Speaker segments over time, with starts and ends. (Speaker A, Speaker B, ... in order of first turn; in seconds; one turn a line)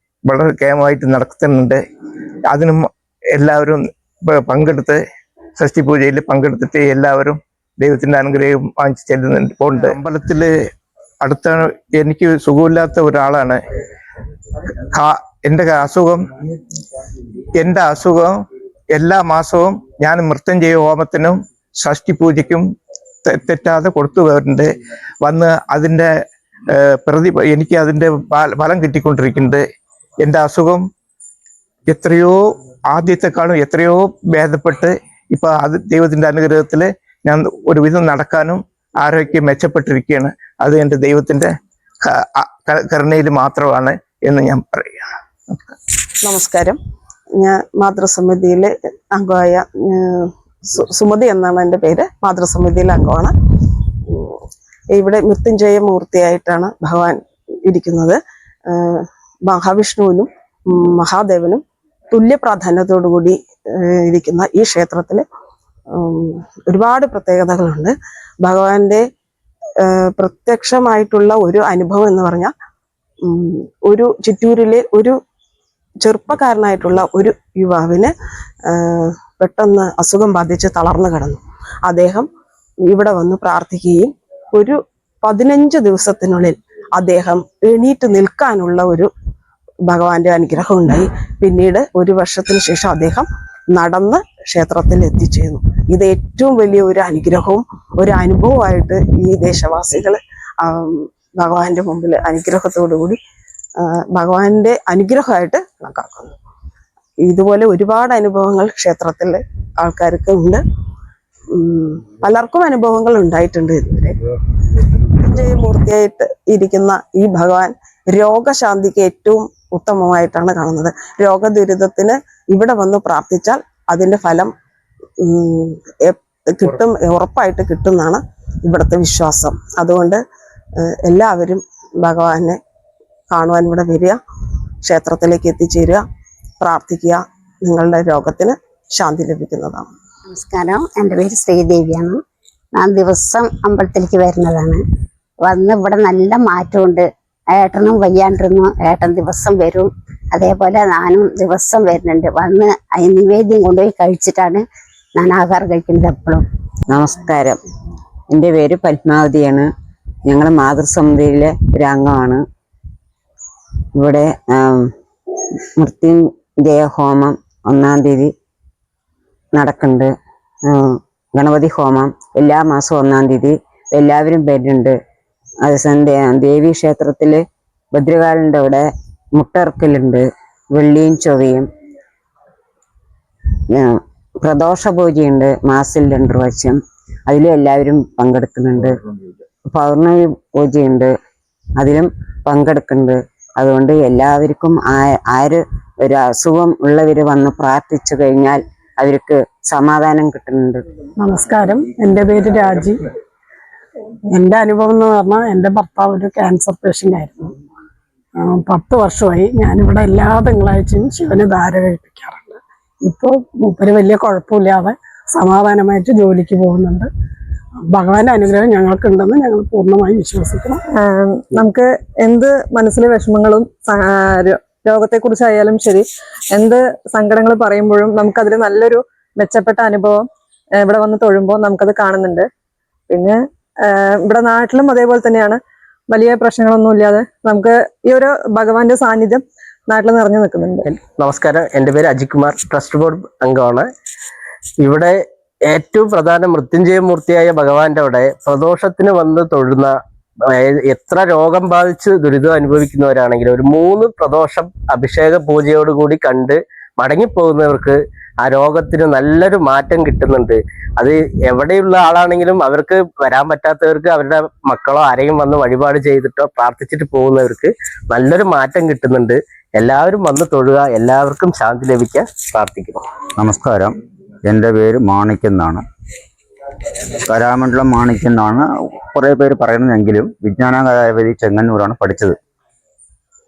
Speaker A: 0.2-1.8
Speaker A: 2.5-5.0
Speaker A: 5.6-10.5
Speaker A: 11.2-13.6
Speaker A: 14.9-16.3
Speaker A: 17.6-18.4
Speaker A: 18.9-22.7
Speaker A: 23.2-24.7
Speaker A: 25.2-26.1
Speaker A: 26.7-29.6
Speaker A: 30.2-30.8
Speaker A: 31.9-45.1
Speaker B: 46.2-46.8
Speaker B: 47.4-53.3
Speaker B: 54.1-54.4
Speaker B: 54.9-65.2
Speaker B: 65.9-69.0
Speaker B: 69.8-72.5
Speaker B: 73.2-75.2
Speaker B: 76.0-78.1
Speaker B: 78.7-82.3
Speaker B: 82.9-89.1
Speaker B: 89.9-103.2
Speaker B: 103.8-106.3
Speaker B: 107.2-110.6
Speaker B: 111.5-114.2
Speaker B: 115.0-124.5
Speaker B: 125.2-130.2
Speaker B: 131.0-132.6
Speaker B: 133.3-134.2
Speaker B: 134.8-136.0
Speaker B: 136.6-139.9
Speaker C: 140.3-142.2
Speaker D: 141.4-141.9
Speaker C: 142.8-144.8
Speaker D: 143.0-143.3
Speaker C: 145.4-154.6
Speaker C: 155.2-156.4
Speaker E: 156.9-157.6
Speaker E: 158.3-159.7
Speaker E: 160.2-162.4
Speaker E: 164.0-164.9
Speaker E: 165.8-168.3
Speaker E: 169.6-170.1
Speaker E: 170.7-175.0
Speaker E: 175.6-181.7
Speaker E: 183.7-188.9
Speaker E: 189.7-191.1
Speaker E: 191.8-200.8
Speaker F: 201.2-203.0
Speaker F: 204.3-207.5
Speaker F: 208.4-217.1
Speaker F: 217.8-220.8
Speaker G: 220.9-230.2
Speaker G: 230.8-232.5
Speaker G: 233.1-240.9
Speaker D: 240.9-243.8
Speaker D: 244.8-245.2
Speaker D: 245.7-249.9
Speaker D: 250.6-273.0
Speaker H: 273.4-275.8
Speaker H: 277.2-282.4